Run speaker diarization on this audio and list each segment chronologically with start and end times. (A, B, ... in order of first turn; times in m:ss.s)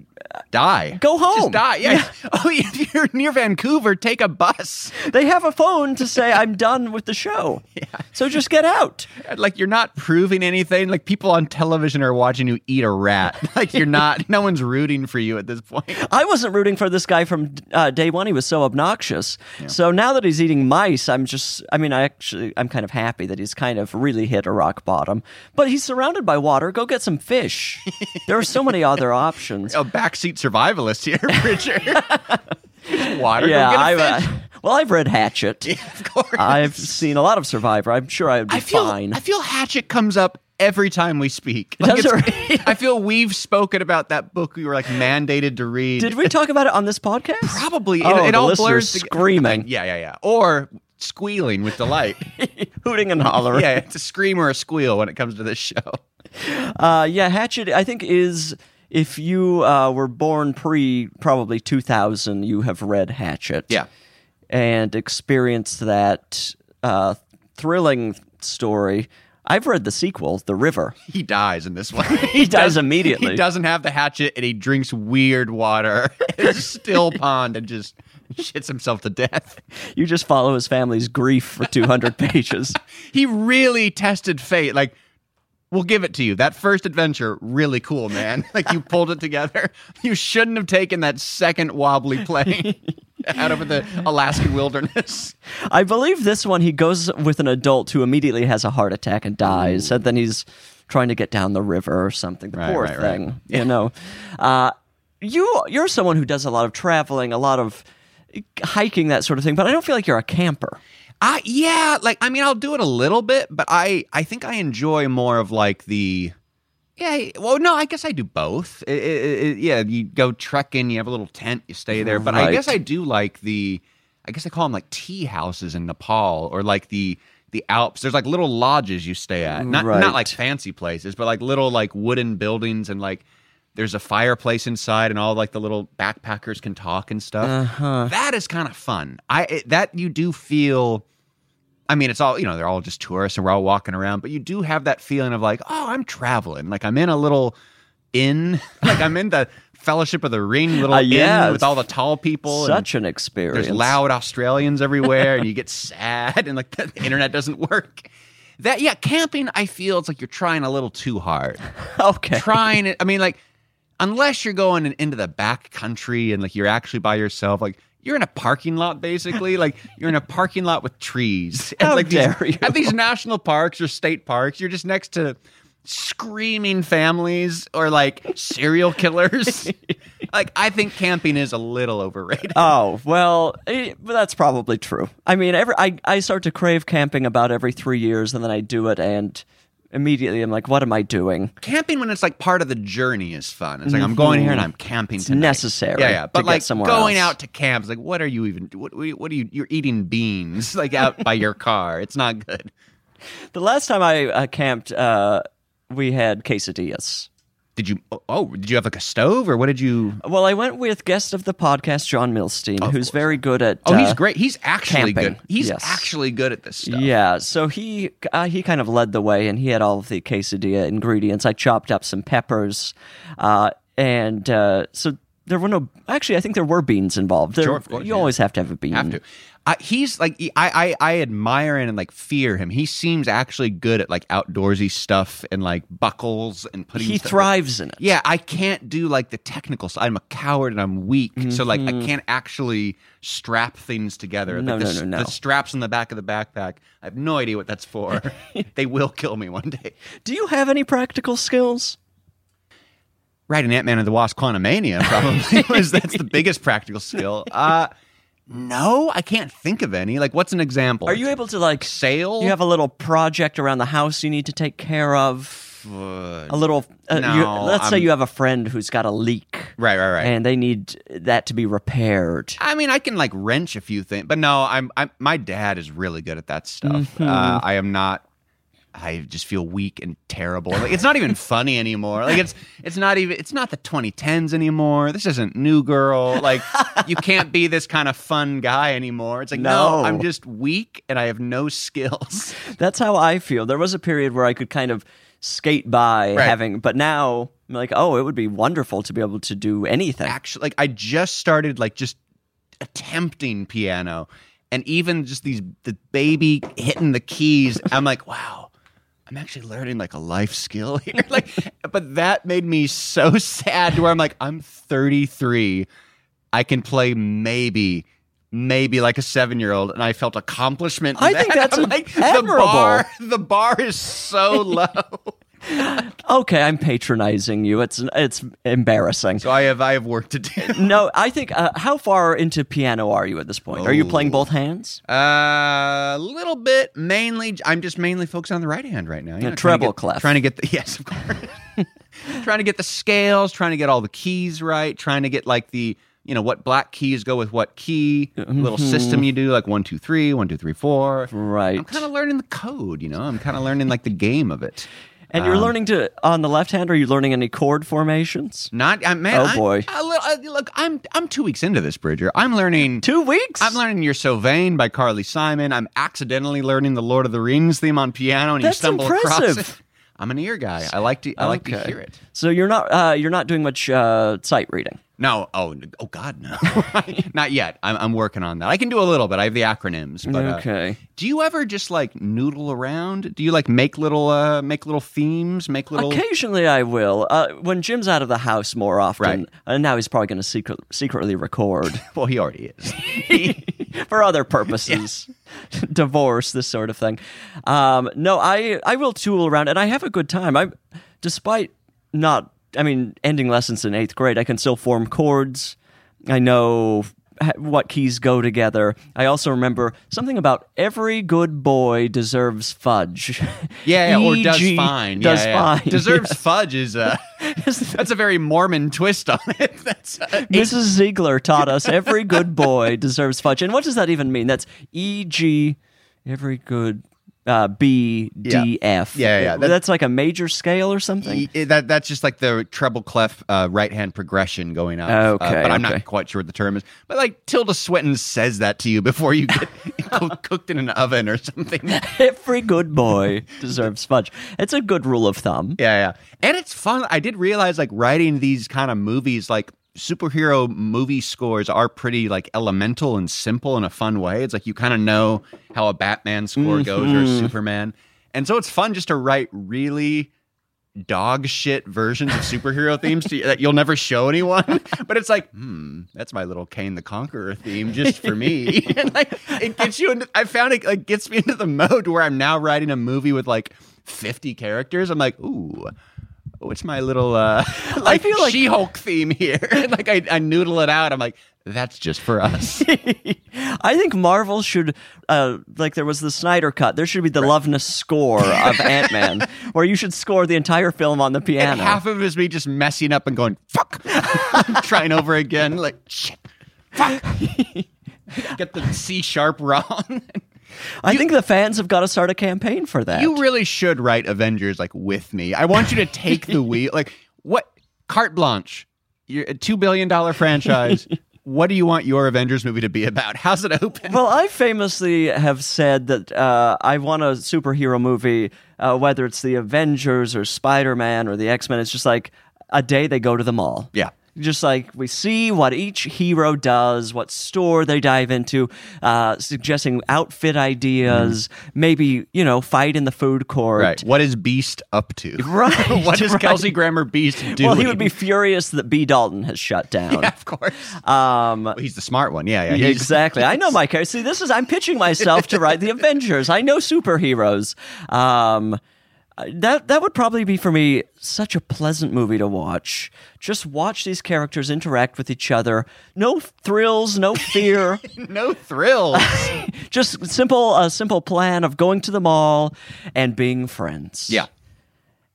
0:00.5-0:05.0 A
0:01.0-0:02.1 B
0:05.0-0:09.1 B
0:07.8-0:08.0 A
0:09.2-0:16.0 A
0:16.0-0:29.8 B
0:29.7-0:32.1 A
0:31.9-0:35.8 B
0:32.9-0:34.3 A
0:35.6-0:37.0 A
0:36.4-0:39.2 B
0:38.5-0:46.3 A
0:41.8-0:42.8 B
0:46.0-0:49.7 B
0:47.4-0:52.3 A
0:52.4-0:53.8 B
0:53.5-0:56.0 A
0:56.4-1:03.8 B
1:04.5-1:11.0 B
1:11.1-1:19.6 A
1:12.1-1:13.4 B
1:20.0-1:22.8 B
1:23.1-1:25.0 A
1:25.7-1:35.4 A
1:35.7-1:50.8 B
1:39.4-1:39.9 A
1:42.5-1:43.7 A
1:51.2-1:56.4 A
1:57.0-2:13.2 A
2:02.0-2:02.8 B
2:09.6-2:10.4 B
2:13.8-2:21.0 A
2:17.4-2:18.1 B
2:21.9-2:27.6 A
2:28.1-2:32.9 A
2:30.8-2:31.8 B
2:32.5-2:34.0 B
2:33.5-2:41.6 A
2:42.0-2:42.6 B
2:42.3-2:43.4 A
2:44.0-2:59.8 A
2:51.8-2:53.0 B
3:00.3-3:02.7 A
3:02.5-3:11.5 B
3:11.6-3:22.7 A
3:13.9-3:14.7 B
3:15.2-3:17.4 B
3:23.5-3:27.3 B
3:27.8-3:30.2 A
3:30.2-3:34.2 B
3:32.8-3:37.1 A
3:34.9-3:36.1 B
3:36.8-3:49.2 B
3:47.6-3:48.3 A
3:48.9-4:10.0 A
3:57.0-3:58.0 B
4:01.4-4:02.1 B
4:04.5-4:05.4 B
4:10.2-4:12.0 B
4:13.5-4:17.9 A
4:15.2-4:16.2 B
4:18.5-4:22.6 A
4:21.1-4:25.9 B
4:25.8-4:28.1 A
4:26.5-4:32.6 B
4:29.8-4:30.3 A
4:32.6-4:38.2 A
4:36.8-4:37.6 B
4:38.9-4:52.6 A
4:49.5-4:50.3 B
4:52.6-5:00.4 B
5:00.3-5:02.2 A
5:02.8-5:08.7 A
5:09.3-5:15.9 A
5:16.5-5:26.1 A
5:21.2-5:23.0 B
5:25.7-5:29.5 B
5:29.4-5:31.0 A
5:30.6-5:35.0 B
5:33.7-5:34.5 A
5:35.1-5:41.6 A
5:39.4-5:40.4 B
5:42.2-5:55.7 A
5:48.4-5:49.3 B
5:51.3-5:52.0 B
5:55.3-5:58.7 B
5:58.7-6:03.1 A
5:59.3-5:59.9 B
6:03.0-6:03.8 B
6:03.6-6:12.2 A
6:08.6-6:09.8 B
6:11.4-6:15.0 B
6:15.2-6:26.2 A
6:20.2-6:21.0 B
6:25.9-6:32.0 B
6:31.9-6:33.8 A
6:33.1-6:45.8 B
6:46.3-6:56.4 B
6:53.8-7:00.8 A
6:57.4-6:58.0 B
7:00.3-7:11.5 B
7:01.6-7:02.7 A
7:08.4-7:09.8 A
7:11.2-7:22.1 A
7:15.1-7:16.0 B
7:21.9-7:25.8 B
7:25.8-7:40.3 A
7:36.6-7:37.5 B
7:41.0-7:55.9 A
7:48.2-7:48.9 B
7:56.6-8:02.9 A
7:57.8-7:58.7 B
8:02.8-8:12.0 B
8:08.5-8:09.4 A
8:11.6-8:17.4 A
8:17.4-8:17.8 B
8:18.3-8:20.4 A
8:21.0-8:23.4 B
8:23.1-8:34.2 A
8:34.1-8:54.0 B
8:51.1-8:51.4 A
8:53.8-8:58.1 A
8:55.4-8:56.8 B
8:57.4-9:00.3 B
9:00.1-9:01.0 A
9:00.9-9:01.8 B
9:01.8-9:03.7 A
9:02.7-9:08.8 B
9:05.2-9:05.8 A
9:09.4-9:18.0 B
9:17.4-9:19.6 A
9:19.1-9:24.4 B